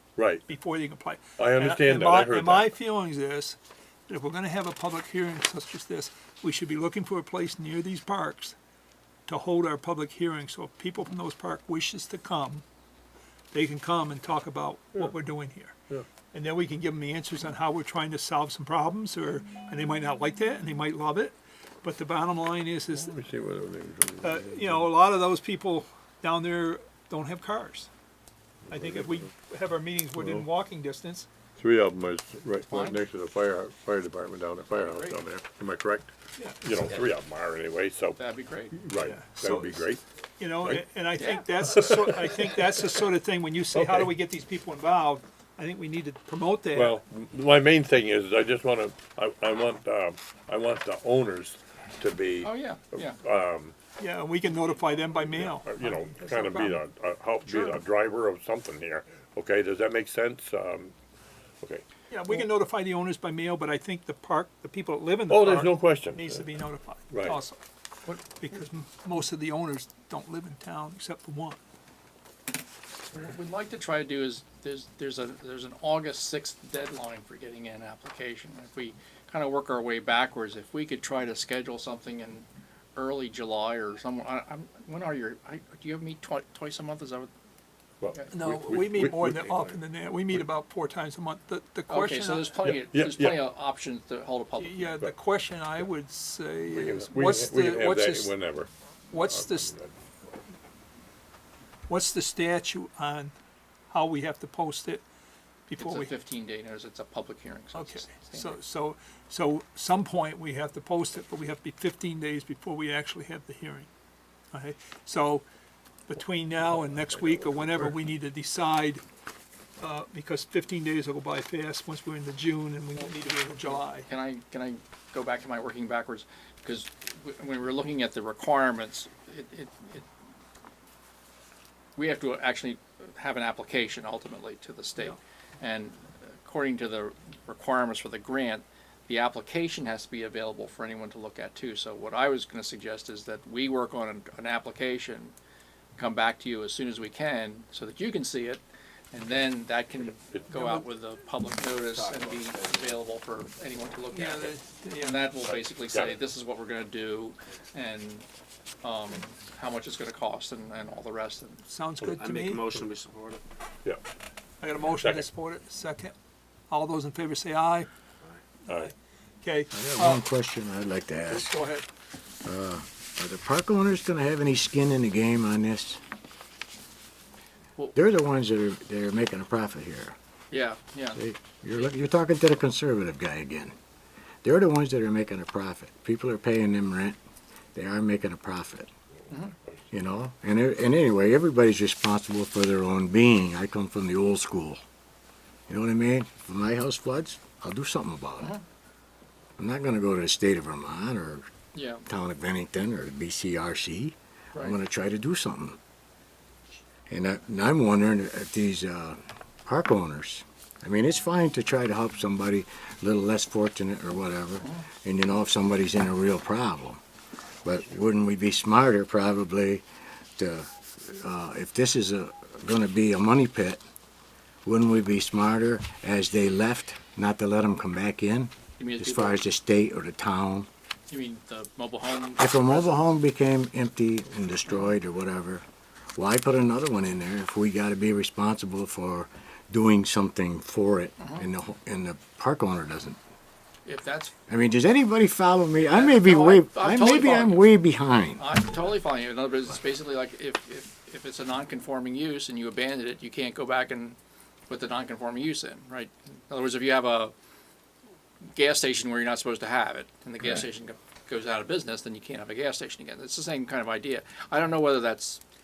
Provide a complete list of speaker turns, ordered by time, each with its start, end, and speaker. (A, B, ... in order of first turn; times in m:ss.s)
0:00.2-0:00.4 A
0:00.5-0:03.6 B
0:01.4-0:02.7 A
0:04.1-0:08.6 B
0:09.3-0:12.6 B
0:13.5-0:15.8 B
0:16.3-0:23.1 B
0:22.9-0:24.9 A
0:24.2-0:27.9 B
0:28.7-0:29.3 A
0:28.7-0:31.3 B
0:30.2-0:30.5 A
0:31.6-0:38.2 A
0:32.7-0:33.0 C
0:34.8-0:35.2 C
0:36.4-0:36.7 B
0:38.2-0:38.8 C
0:38.7-0:40.0 A
0:39.0-0:39.9 B
0:40.4-0:47.0 B
0:41.2-0:41.5 C
0:41.7-0:42.1 A
0:43.8-0:44.1 A
0:46.7-0:53.8 A
0:52.4-0:53.2 C
0:54.0-0:56.8 B
0:55.3-1:00.9 A
0:57.4-0:57.8 B
1:02.1-1:07.6 B
1:05.3-1:06.5 A
1:07.1-1:07.4 A
1:08.2-1:11.6 B
1:13.1-1:27.3 C
1:28.0-1:29.8 A
1:28.3-1:32.5 B
1:31.9-1:35.0 C
1:32.6-1:33.5 A
1:34.6-1:38.4 B
1:36.7-1:39.9 A
1:39.1-1:39.7 B
1:41.9-1:43.3 B
1:43.9-1:45.0 B
1:45.7-1:46.1 B
1:45.8-1:48.6 C
1:47.7-1:53.9 B
1:54.5-1:55.4 B
1:56.1-1:59.0 B
1:59.8-2:04.1 B
2:03.7-2:10.1 C
2:12.0-2:25.4 C
2:26.0-2:38.3 C
2:30.0-2:30.8 A
2:31.9-2:33.0 D
2:34.1-2:35.3 B
2:38.8-2:41.6 C
2:41.7-2:42.8 B
2:42.0-2:43.4 D
2:44.6-2:46.1 B
2:44.9-2:45.3 A
2:46.7-2:47.9 B
2:48.7-2:48.9 A
2:49.4-2:50.2 B
2:49.7-2:51.6 E
2:51.3-2:51.9 B
2:52.4-2:56.0 E
2:58.0-3:00.2 E
3:00.5-3:01.2 C
3:01.2-3:03.8 E
3:04.4-3:07.2 E
3:07.8-3:08.9 E
3:09.9-3:14.8 E
3:15.7-3:18.6 E
3:19.6-3:21.5 E
3:21.7-3:22.0 C
3:22.1-3:25.8 E
3:27.1-3:37.0 E
3:37.6-3:39.8 E
3:40.4-3:43.8 E
3:44.6-3:50.7 E
3:48.8-3:49.4 C
3:51.1-3:53.0 C
3:52.4-3:55.6 E
3:56.2-4:03.2 E
4:03.9-4:04.3 C
4:04.5-4:08.5 E
4:05.9-4:07.7 C
4:08.4-4:14.2 C
4:14.7-4:17.3 C
4:18.6-4:25.4 C